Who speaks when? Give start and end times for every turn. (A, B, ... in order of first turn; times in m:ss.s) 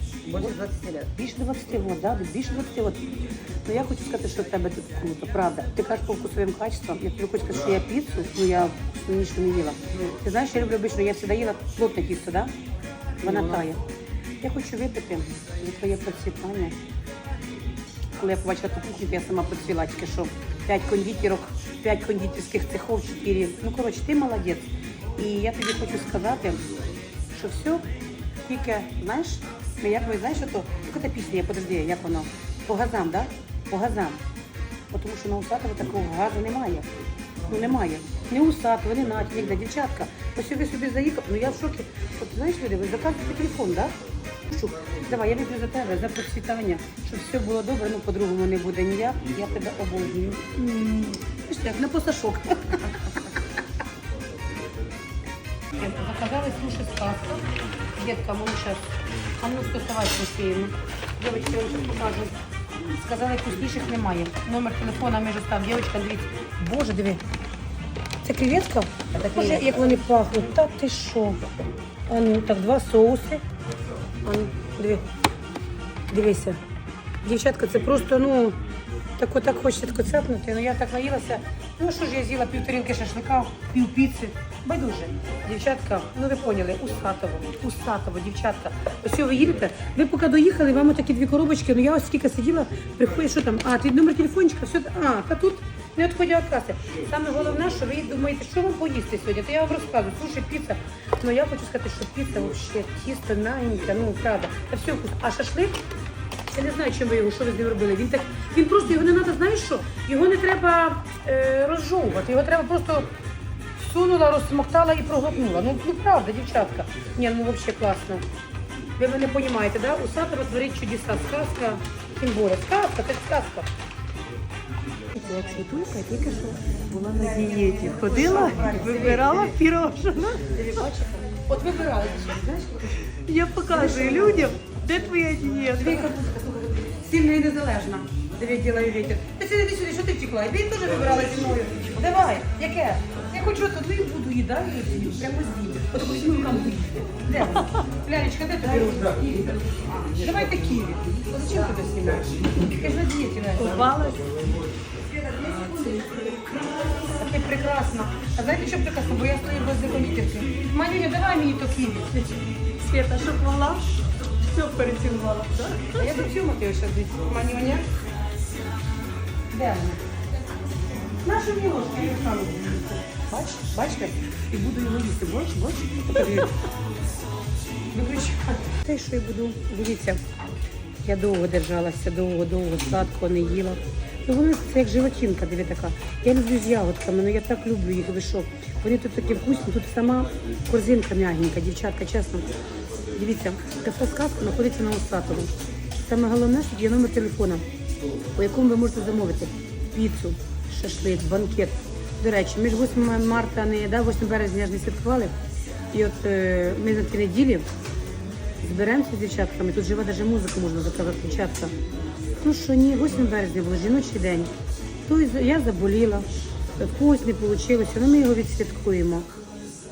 0:00.2-0:01.1 A
0:01.2-0:12.5 B
0:13.2-0:13.8 B
0:14.4-0:16.8 B
0:18.2-0:26.6 B
0:27.3-0:27.8 B
0:28.4-0:34.2 B
0:34.9-0:36.9 B
0:37.5-0:43.9 B
0:44.4-0:53.0 B
0:55.7-1:02.3 B
1:03.0-1:07.2 B
1:08.2-1:11.4 B
1:09.2-1:09.8 A
1:12.1-1:13.4 B
1:14.2-1:15.0 B
1:16.1-1:16.6 B
1:17.2-1:18.6 B
1:19.2-1:45.8 B
1:46.5-1:53.1 B
1:53.8-1:58.2 B
1:59.0-2:03.7 B
2:05.1-2:09.6 B
2:07.1-2:10.4 C
2:07.2-2:08.8 A
2:10.4-2:14.5 B
2:13.3-2:16.1 C
2:15.8-2:29.5 B
2:28.8-2:30.2 A
2:30.1-2:33.8 B
2:33.6-2:34.6 C
2:35.0-2:37.2 A
2:36.0-2:37.0 C
2:37.1-2:42.4 B
2:42.8-2:46.2 C
2:45.9-2:47.8 B
2:49.5-2:50.0 B
2:51.2-2:56.5 B
2:57.9-3:00.2 B
3:01.0-3:12.5 B
3:13.1-3:17.6 B
3:18.4-3:25.3 B
3:25.9-3:27.7 B
3:28.6-3:31.7 B
3:32.4-3:34.5 B
3:35.0-3:39.3 B